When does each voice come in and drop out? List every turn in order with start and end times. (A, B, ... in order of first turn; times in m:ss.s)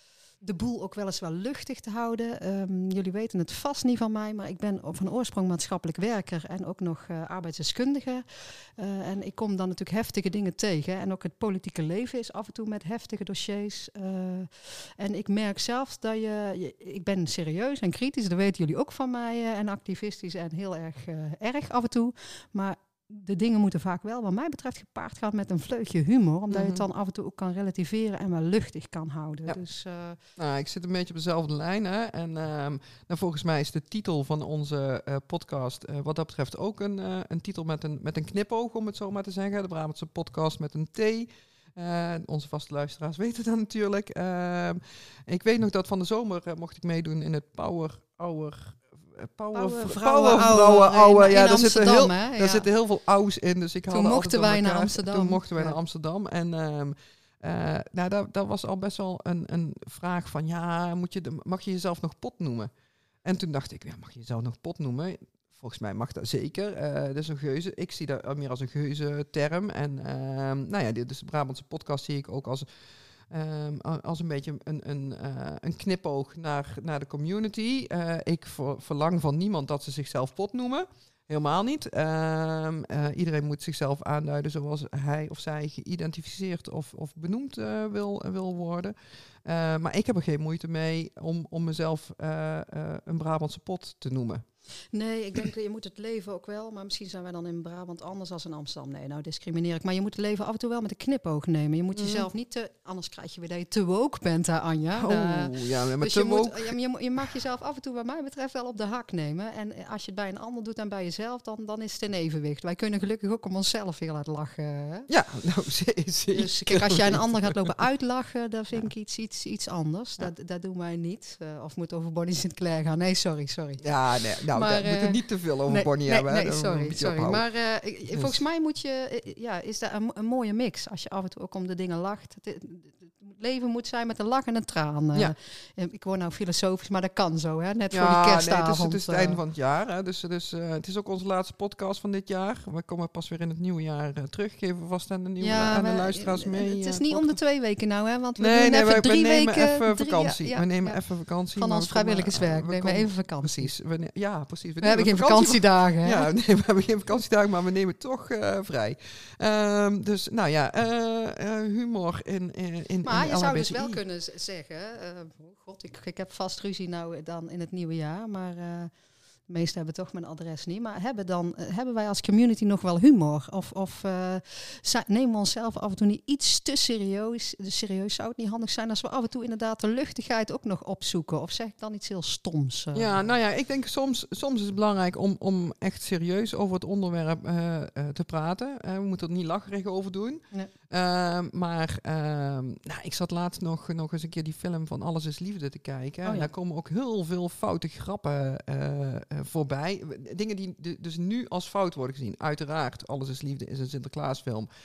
0:00.4-0:30.2 A
0:26.5-0:26.8 B
0:30.4-1:02.7 B
0:49.5-0:52.7 A
0:53.9-0:55.8 A
1:03.2-1:12.7 B
1:13.3-1:34.4 B
1:34.9-1:55.1 A
1:41.9-1:42.3 B
1:45.0-1:46.8 B
1:55.1-1:57.6 B
1:56.3-2:03.9 A
2:03.8-2:07.4 B
2:04.5-2:19.4 A
2:08.1-2:08.4 B
2:17.9-2:27.4 B
2:25.4-2:31.0 A
2:28.4-2:44.0 B
2:31.5-2:33.7 A
2:34.8-2:36.3 A
2:43.0-2:48.9 A
2:49.5-3:03.2 A
3:03.0-3:24.7 B
3:16.2-3:16.5 A